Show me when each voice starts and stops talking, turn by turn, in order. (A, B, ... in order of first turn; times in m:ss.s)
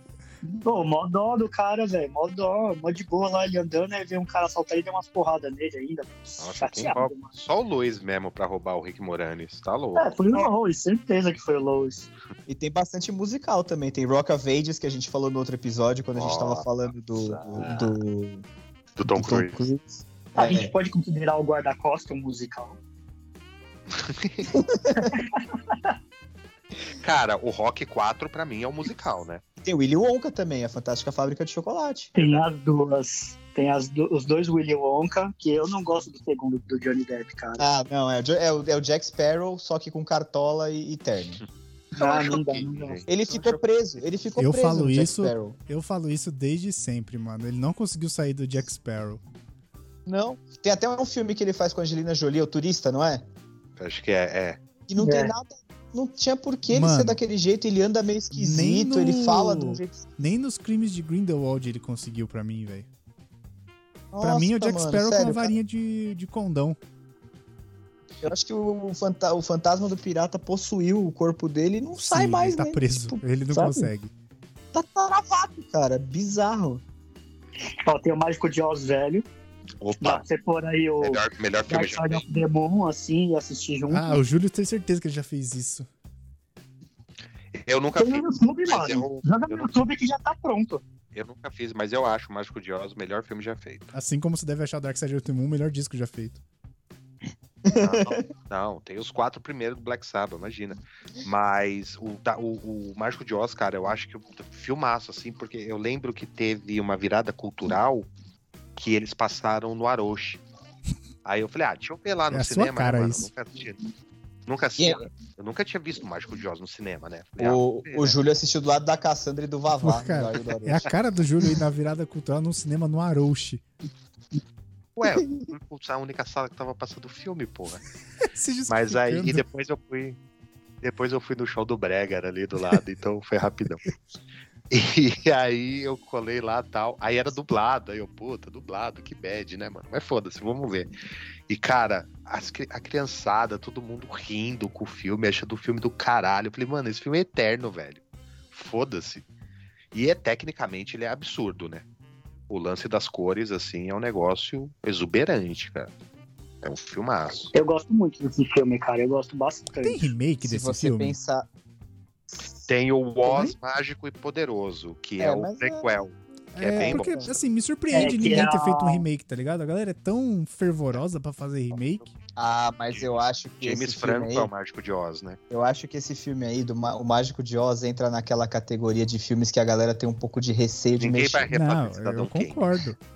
0:00.4-0:07.3 A
0:06.4-0:10.1 B
0:10.0-0:12.1 A
0:12.5-0:18.4 C
0:16.2-0:18.0 B
0:19.0-0:19.6 B
0:19.1-0:20.7 C
0:20.4-0:22.8 A
0:23.9-0:24.7 B
0:24.5-0:25.2 C
0:25.0-0:26.0 A
0:27.0-0:29.4 B
0:29.6-0:32.2 C
0:32.2-0:37.7 A
0:37.6-0:41.4 C
0:42.0-0:43.6 A
0:42.0-0:43.1 B
0:43.1-0:45.6 C
0:44.4-0:49.2 D
0:50.1-0:53.3 C
0:53.8-0:54.6 B
0:54.9-1:00.1 C
0:55.0-0:55.3 A
0:56.7-0:57.2 D
0:58.3-1:02.9 D
1:04.1-1:05.6 C
1:04.2-1:06.8 D
1:08.2-1:13.9 C
1:12.0-1:14.1 D
1:14.7-1:16.8 C
1:17.8-1:19.3 A
1:19.8-1:20.2 B
1:20.0-1:24.2 A
1:21.0-1:22.2 B
1:23.9-1:25.9 D
1:27.5-1:29.8 B
1:28.0-1:30.8 A
1:31.1-1:33.9 B
1:33.9-1:36.4 D
1:37.6-1:38.3 C
1:37.8-1:48.1 B
1:48.8-1:50.4 B
1:51.2-1:53.9 B
1:52.3-1:53.3 D
1:54.5-1:58.2 B
1:54.8-1:55.1 C
1:57.4-2:00.9 C
1:59.8-2:03.6 D
2:05.0-2:07.8 B
2:08.2-2:09.4 D
2:08.7-2:10.2 B
2:10.8-2:13.9 B
2:14.7-2:20.9 B
2:21.5-2:29.2 B
2:29.9-2:31.9 B
2:32.5-2:35.9 B
2:36.6-2:37.5 B
2:37.5-2:40.1 A
2:39.8-2:41.2 D
2:40.4-2:41.5 C
2:42.6-2:47.3 B
2:43.3-2:43.5 C
2:45.2-2:45.9 C
2:46.5-2:52.1 D
2:46.8-2:47.4 C
2:47.9-2:49.1 A
2:52.4-2:54.5 C
2:53.6-2:55.4 B
2:55.5-3:01.5 C
3:01.0-3:02.6 B
3:01.5-3:03.0 D